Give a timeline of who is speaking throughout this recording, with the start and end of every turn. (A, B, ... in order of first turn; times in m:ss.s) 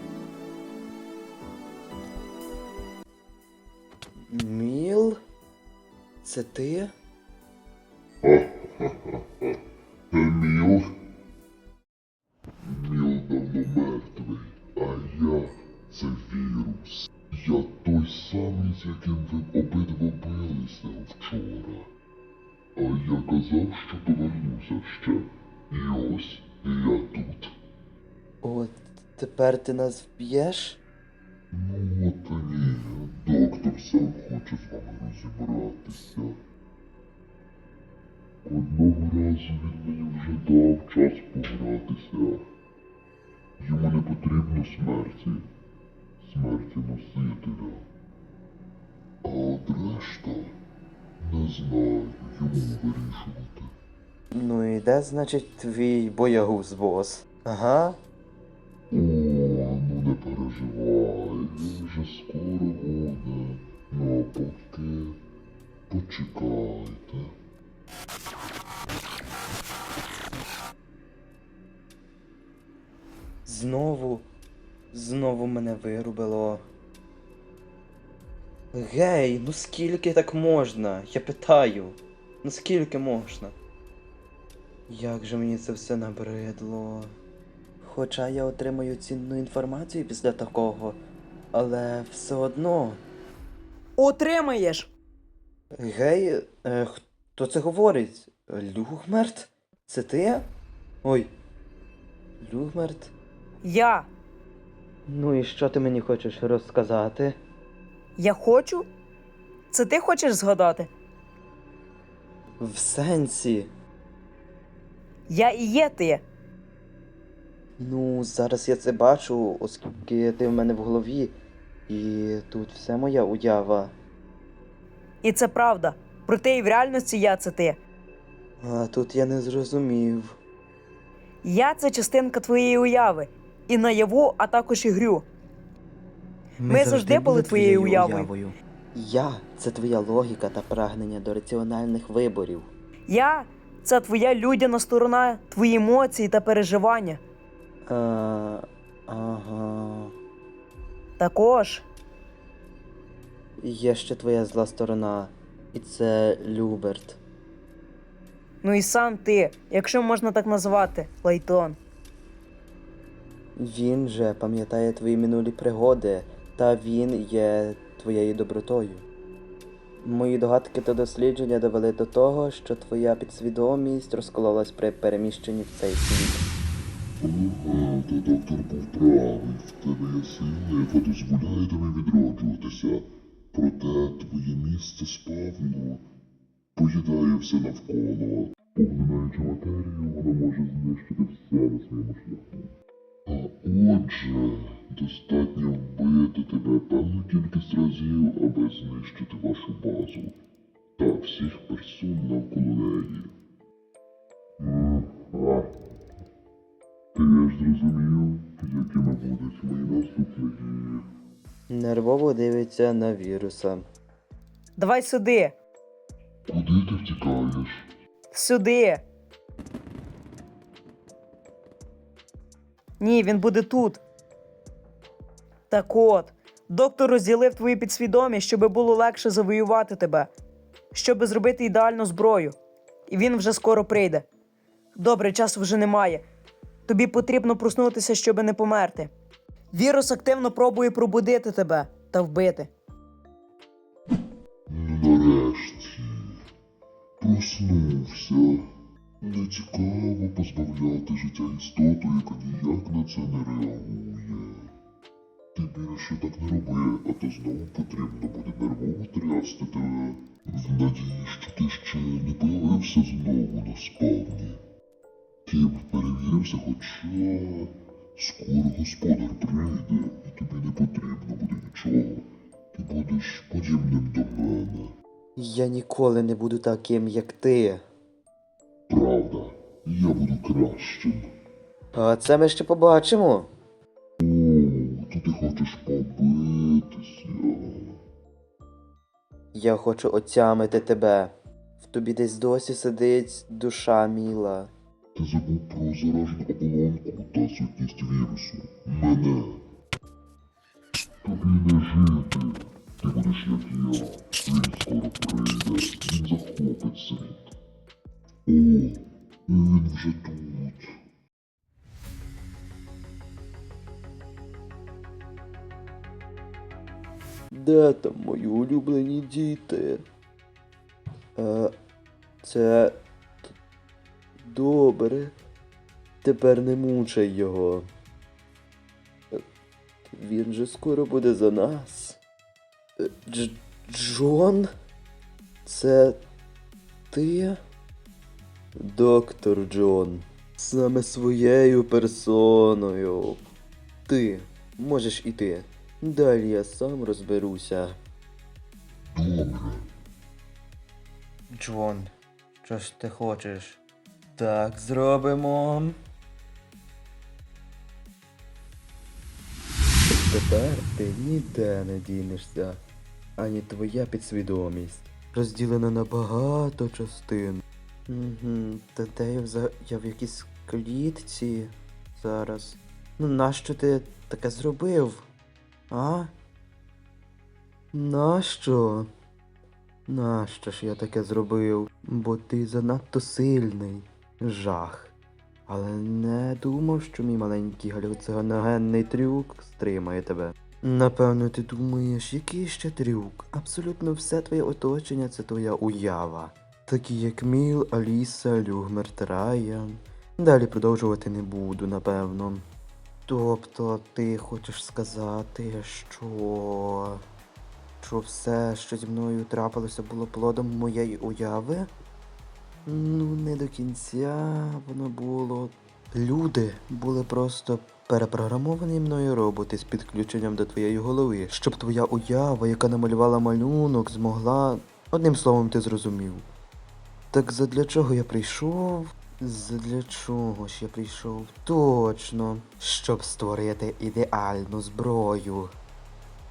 0:04.3-0:05.2 A
0:06.2-0:06.9 A
0:08.2-0:09.6 B
0:10.1-0:11.0 B
0:12.6-0:21.9 B
0:22.8-0:27.5 B
0:28.4-0:30.8 A
0:31.5-0:36.4 B
0:38.4-0:42.4 B
0:43.6-0:45.4 B
0:46.2-0:47.8 B
0:49.2-0:50.6 B
0:51.2-0:53.7 B
0:54.3-0:58.0 A
0:58.9-1:05.2 B
1:05.9-1:07.4 B
1:13.5-1:14.3 A
1:14.9-1:16.6 A
1:18.7-1:23.6 A
1:24.9-1:27.1 A
1:27.8-1:31.0 A
1:31.5-1:33.0 A
1:34.0-1:34.9 C
1:35.7-1:40.4 A
1:41.0-1:41.3 A
1:42.4-1:43.1 A
1:43.6-1:44.1 C
1:45.1-1:47.4 A
1:48.2-1:48.9 C
1:49.7-1:50.9 C
1:52.6-1:53.7 A
1:55.3-1:56.2 C
1:57.8-2:01.4 A
2:01.9-2:03.9 A
2:05.2-2:07.8 C
2:08.6-2:10.4 A
2:11.4-2:15.3 C
2:16.6-2:22.7 A
2:16.7-2:18.3 C
2:23.1-2:27.2 C
2:27.9-2:30.1 A
2:31.2-2:31.8 C
2:33.6-2:37.2 A
2:38.6-2:41.8 C
2:43.6-2:49.0 A
2:50.0-2:56.4 A
2:57.2-3:06.1 B
3:06.8-3:12.7 B
3:13.3-3:20.4 B
3:21.0-3:23.3 B
3:24.6-3:25.9 B
3:27.1-3:31.1 B
3:31.7-3:33.8 A
3:34.8-3:35.6 C
3:36.5-3:37.9 B
3:38.3-3:39.0 C
3:43.0-3:44.0 C
3:45.7-3:50.3 C
3:50.9-3:52.6 C
3:53.1-3:54.3 C
3:55.0-3:56.2 C
3:56.9-3:59.1 C
3:59.7-4:02.7 C
4:04.7-4:06.4 B
4:07.2-4:08.7 B
4:09.2-4:14.7 B
4:15.5-4:24.6 B
4:25.5-4:34.9 B
4:35.4-4:37.8 A
4:38.9-4:41.3 B
4:41.9-4:43.5 A
4:44.2-4:48.0 B
4:49.5-4:54.7 A
4:55.2-4:59.6 B
5:01.2-5:07.6 B
5:08.5-5:11.0 B
5:17.5-5:20.0 A
5:21.4-5:21.7 A
5:22.4-5:23.0 A
5:24.4-5:25.4 A
5:26.2-5:27.9 A
5:30.1-5:32.2 A
5:33.0-5:34.7 A
5:35.6-5:36.2 A
5:37.1-5:37.6 A
5:38.8-5:43.4 A
5:44.1-5:48.0 A
5:49.1-5:49.9 B
5:51.5-5:52.1 A
5:52.6-5:53.8 A
5:54.4-5:56.0 A
6:00.1-6:02.8 A
6:03.4-6:15.3 A
6:15.9-6:16.3 A
6:17.9-6:19.1 A
6:20.1-6:25.1 A
6:25.7-6:42.6 A
6:43.3-6:47.2 A
6:48.0-6:51.9 A
6:52.9-7:06.5 A
7:07.3-7:15.7 A